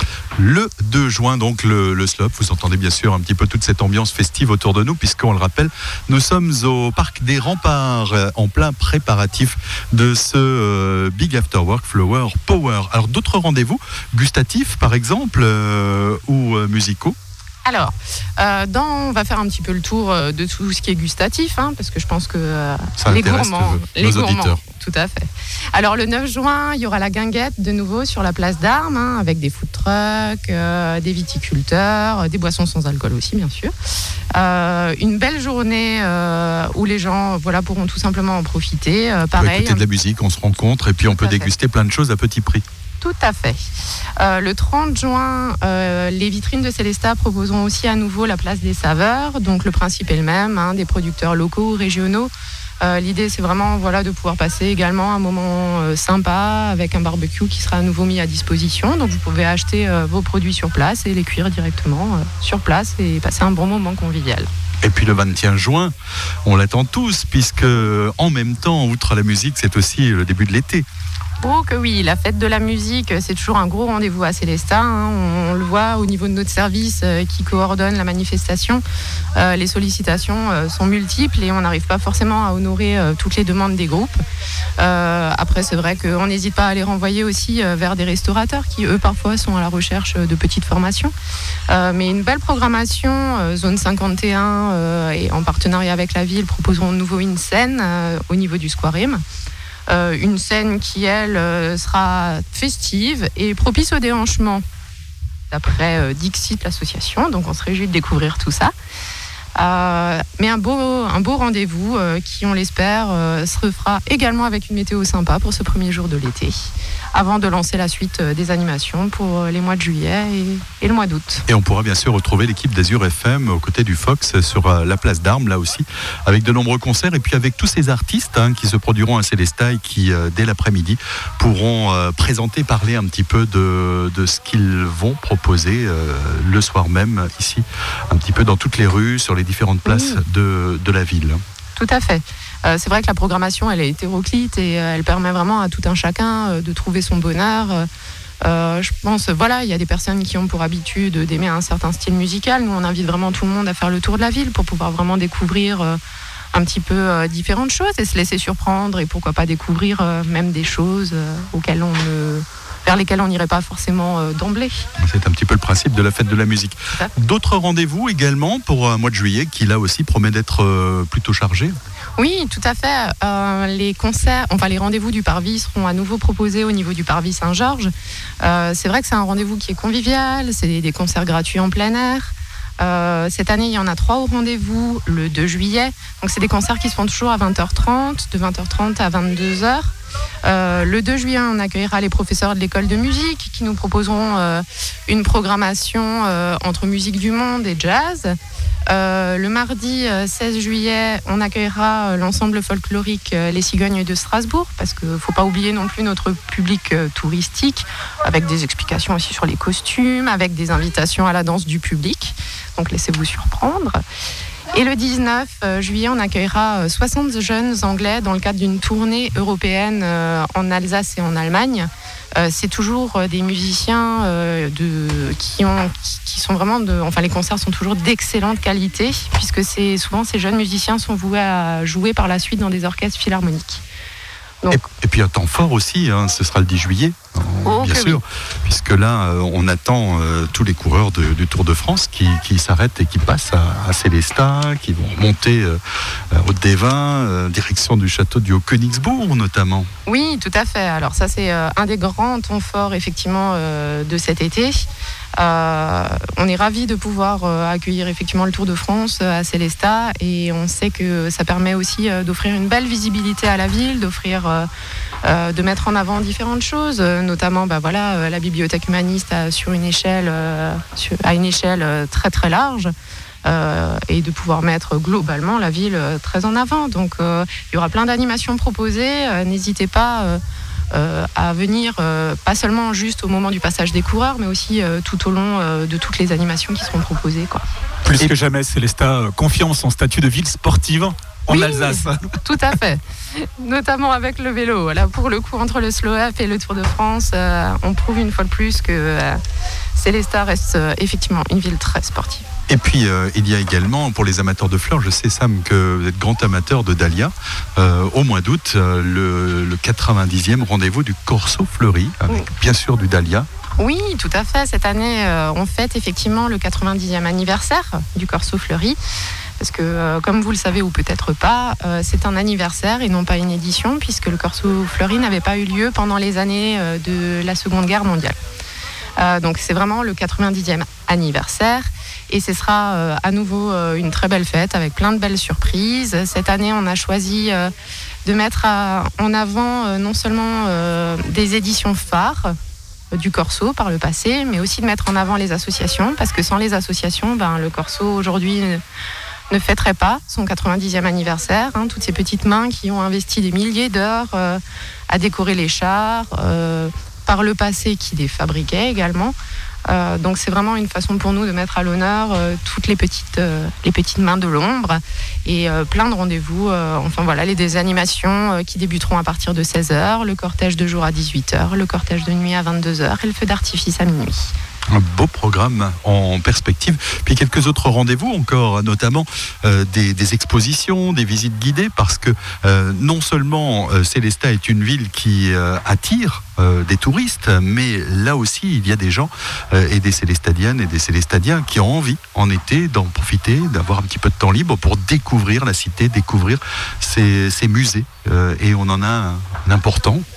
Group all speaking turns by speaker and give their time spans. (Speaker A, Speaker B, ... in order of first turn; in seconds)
Speaker A: 0.4-17.1, 23.0-24.6, 39.3-42.6, 64.8-65.9, 66.4-70.8, 121.5-141.4, 165.0-171.8, 234.7-245.8, 246.3-249.9, 302.7-313.5, 374.9-400.2
Speaker B: 17.6-33.7, 34.3-39.8, 41.0-41.5, 43.0-43.6, 44.2-64.5, 71.4-78.8, 79.3-84.2, 84.8-91.1, 91.7-99.2, 99.9-104.6, 105.5-108.7, 109.5-121.4, 139.8-140.2, 141.8-147.9, 148.4-156.0, 156.5-164.9, 172.2-189.9, 190.4-198.4, 198.9-214.0, 214.7-233.8, 237.6-238.2, 250.1-254.8, 255.4-264.7, 265.2-272.9, 273.4-280.4, 280.9-287.6, 291.5-299.4, 299.9-302.4, 313.8-319.0, 319.6-328.4, 329.2-337.7, 338.2-342.5, 343.1-348.8, 349.5-359.3, 359.9-374.5
Speaker C: 288.0-292.3